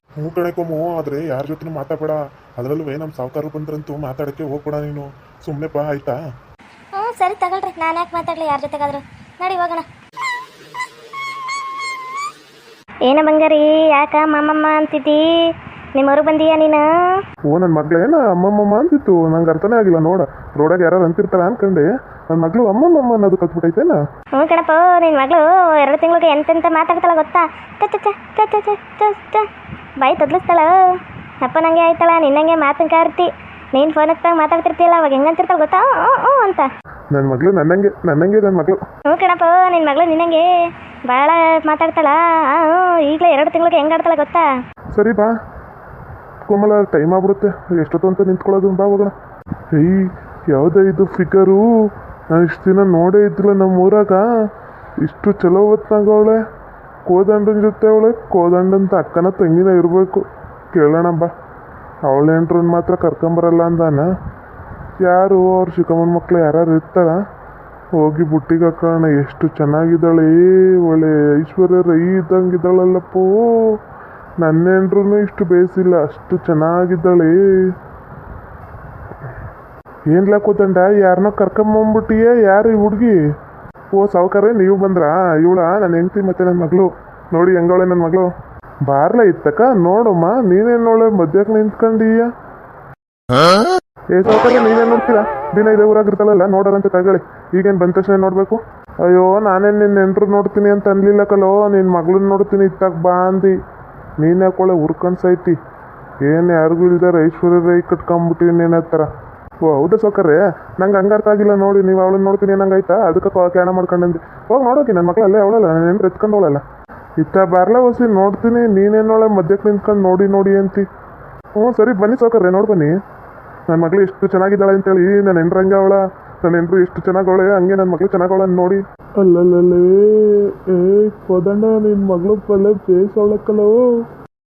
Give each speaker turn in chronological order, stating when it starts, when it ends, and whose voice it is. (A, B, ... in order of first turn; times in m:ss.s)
0:00.2-0:06.2 A
0:06.9-0:09.8 B
0:13.0-0:16.8 B
0:17.5-0:24.0 A
0:24.3-0:29.4 B
0:30.0-0:30.8 B
0:31.4-0:36.7 B
0:37.1-0:38.8 A
0:39.1-0:40.5 B
0:41.0-0:44.5 B
0:44.9-0:45.3 A
0:46.4-0:49.1 A
0:49.7-0:51.6 A
0:52.3-0:54.2 A
0:55.0-0:56.4 A
0:57.1-1:01.3 A
1:02.0-1:04.1 A
1:05.0-1:07.2 A
1:08.0-1:13.8 A
1:14.4-1:17.4 A
1:20.1-1:23.2 A
1:23.9-1:28.3 A
1:28.8-1:32.3 A
1:34.1-1:43.6 A
1:44.2-1:45.6 A
1:46.2-1:49.1 A
1:49.6-1:56.6 A
1:57.2-2:00.9 A
2:01.6-2:02.9 A
2:03.7-2:13.8 A